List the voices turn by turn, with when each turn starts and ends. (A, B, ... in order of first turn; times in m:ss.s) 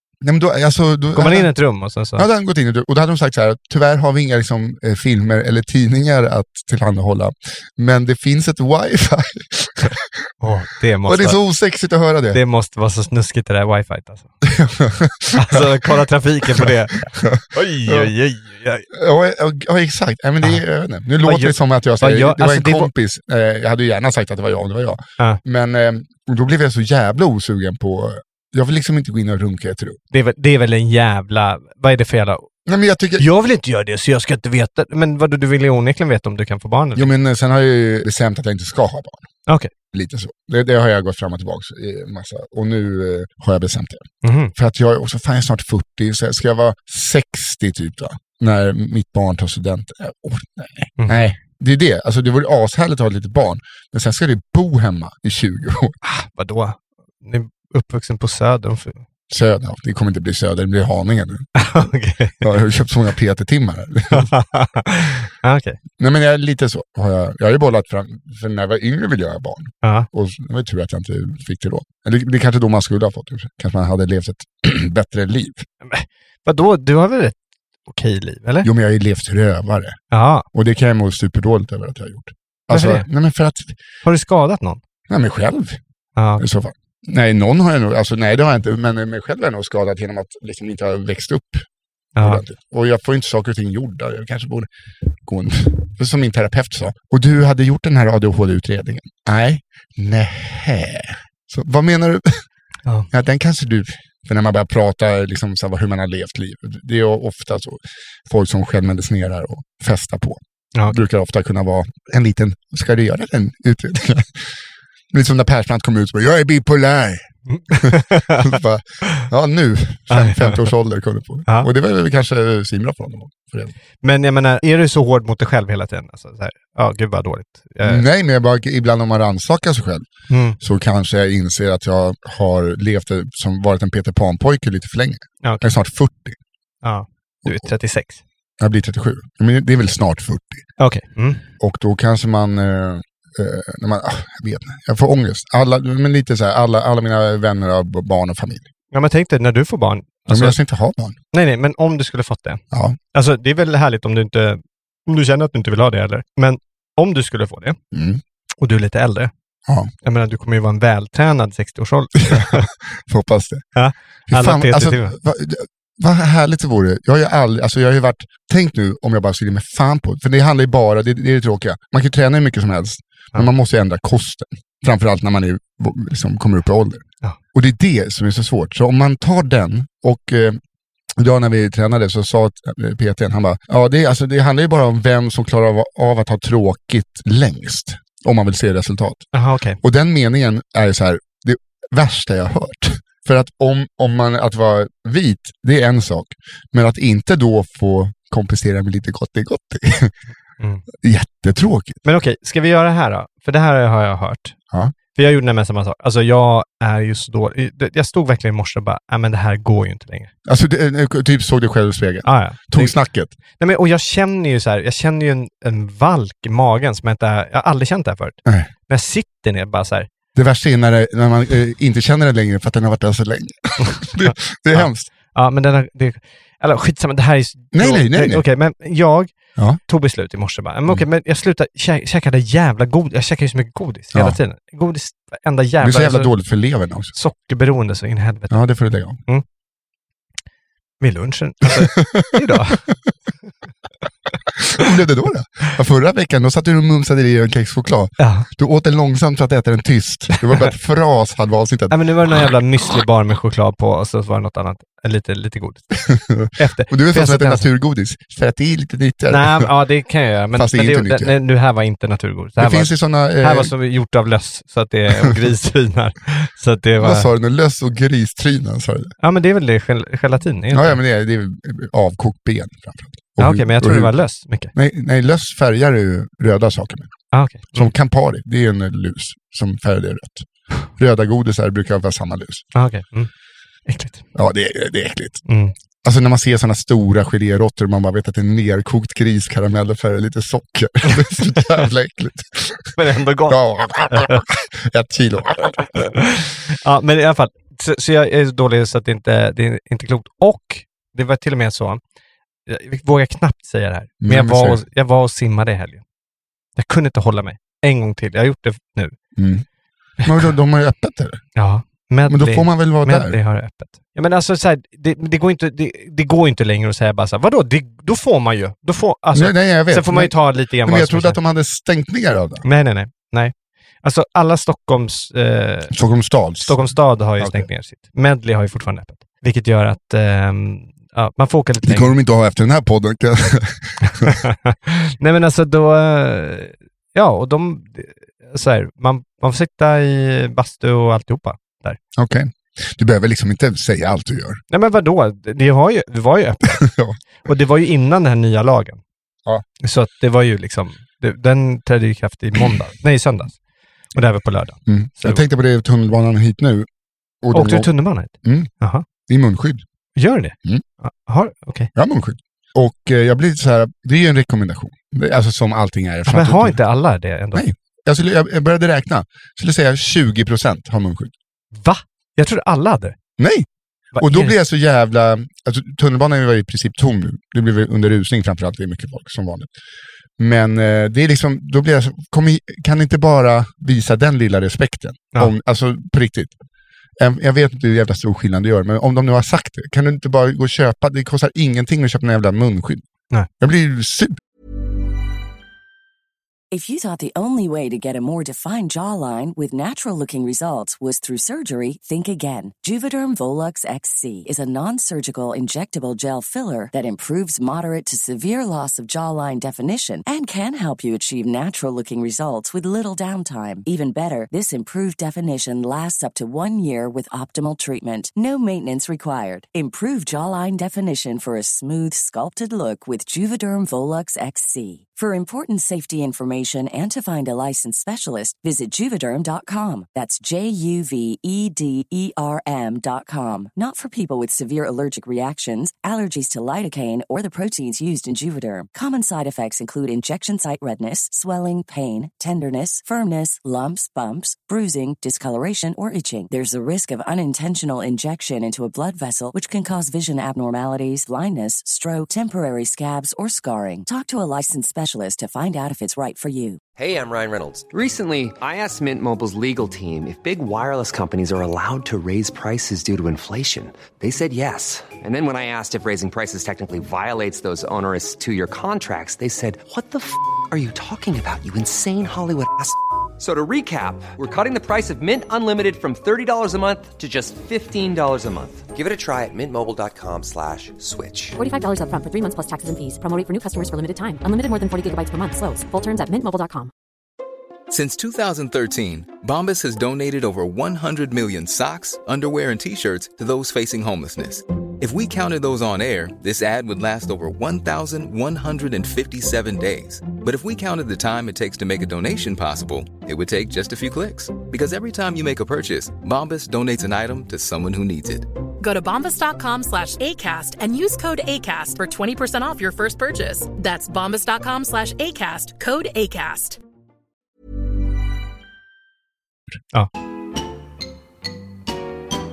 0:00.2-0:01.5 A
0:01.1-0:02.3 B
0:02.2-0:10.2 A
0:10.4-0:11.4 B
0:11.0-0:12.4 A
0:12.3-0:14.3 B
0:14.4-0:18.1 A
0:15.3-0:18.9 B
0:18.9-0:30.0 A
0:21.2-0:22.9 B
0:30.1-0:32.5 B
0:32.6-0:33.2 A
0:33.2-0:37.1 B
0:37.0-0:39.3 A
0:39.9-0:56.0 A
0:44.2-0:44.5 B
0:56.0-0:59.0 B
0:59.3-1:01.5 A
1:01.6-1:02.5 B
1:02.4-1:04.3 A
1:04.1-1:05.8 B
1:06.0-1:15.6 A
1:09.8-1:10.1 B
1:15.8-1:18.7 B
1:18.6-1:20.0 A
1:20.1-1:20.4 B
1:20.5-1:23.8 A
1:22.7-1:23.0 B
1:24.0-1:24.8 B
1:25.1-1:25.8 A
1:26.2-1:26.4 B
1:26.4-1:31.6 A
1:32.2-1:32.4 B
1:32.2-1:34.7 A
1:35.2-1:42.4 A
1:43.1-1:54.5 A
1:55.1-2:03.7 A
1:57.5-1:59.2 B
2:00.1-2:00.7 B
2:04.0-2:08.0 B
2:07.8-2:10.1 A
2:10.3-2:10.6 B
2:10.6-2:16.4 A
2:16.8-2:18.2 B
2:17.4-2:17.7 A
2:18.6-2:20.7 A
2:20.8-2:21.4 B
2:21.6-2:28.7 A
2:28.9-2:30.6 B
2:30.3-2:31.2 A
2:31.3-2:37.8 B
2:32.7-2:33.0 A
2:37.9-2:38.2 A
2:38.6-2:39.3 B
2:40.0-2:42.6 B
2:42.2-2:43.7 A
2:43.7-2:45.2 B
2:44.3-3:00.6 A
3:01.2-3:09.3 A
3:09.3-3:09.8 B
3:09.8-3:20.1 A
3:21.0-3:22.0 A
3:22.0-3:24.6 B
3:25.1-3:30.3 B
3:30.4-3:33.3 A
3:32.2-3:33.0 B
3:33.6-3:40.1 B
3:40.3-3:45.1 A
3:43.8-3:56.3 B
3:47.7-3:48.4 A
3:55.8-3:57.1 A
3:57.1-3:58.6 B
3:58.5-3:59.2 A
4:01.0-4:02.8 B
4:01.6-4:02.8 A
4:04.6-4:12.5 A
4:08.2-4:08.5 B
4:11.9-4:16.0 B
4:16.0-4:19.7 A
4:16.5-4:17.6 B
4:19.3-4:27.3 B
4:20.5-4:21.3 A
4:22.6-4:23.7 A
4:27.0-4:29.1 A
4:29.2-4:31.0 B
4:30.7-4:34.1 A
4:33.4-4:34.7 B
4:34.7-4:37.1 A
4:37.3-4:37.9 B
4:37.7-4:42.6 A
4:42.7-4:43.3 B
4:43.9-4:44.2 B
4:44.3-4:45.4 A
4:45.5-4:45.7 B
4:46.0-4:53.0 A
4:53.0-4:54.4 B
4:53.5-4:56.0 A
4:55.9-5:02.0 B
5:02.7-5:06.0 B
5:04.2-5:04.8 A
5:06.8-5:09.2 B
5:09.4-5:09.6 A
5:10.2-5:10.5 B
5:10.2-5:11.4 A
5:11.5-5:21.4 B
5:12.3-5:13.4 A
5:19.3-5:22.6 A
5:22.6-5:25.9 B
5:25.9-5:26.9 A
5:26.7-5:32.1 B
5:27.4-5:27.7 A
5:31.8-5:34.4 A
5:34.0-5:42.0 B
5:42.2-5:44.6 A
5:44.7-5:46.8 B
5:46.7-5:47.2 A
5:47.4-5:49.0 B
5:49.8-5:53.6 B
5:54.1-5:55.4 B
5:54.8-5:56.9 A
5:57.4-5:57.9 A
5:57.5-5:59.0 B
5:58.4-5:58.7 A
5:59.3-5:59.8 A
6:00.2-6:01.9 B
6:02.0-6:06.8 A
6:06.3-6:07.6 B
6:07.5-6:11.3 A
6:11.7-6:13.2 B
6:13.4-6:13.7 A
6:14.2-6:14.5 B
6:14.2-6:19.7 A
6:20.4-6:26.6 A
6:27.2-6:33.0 A
6:33.6-6:34.4 A
6:36.7-7:36.8 C
7:36.9-8:01.6 D
8:01.6-8:06.9 E
8:07.9-8:28.5 F
8:28.8-8:36.8 G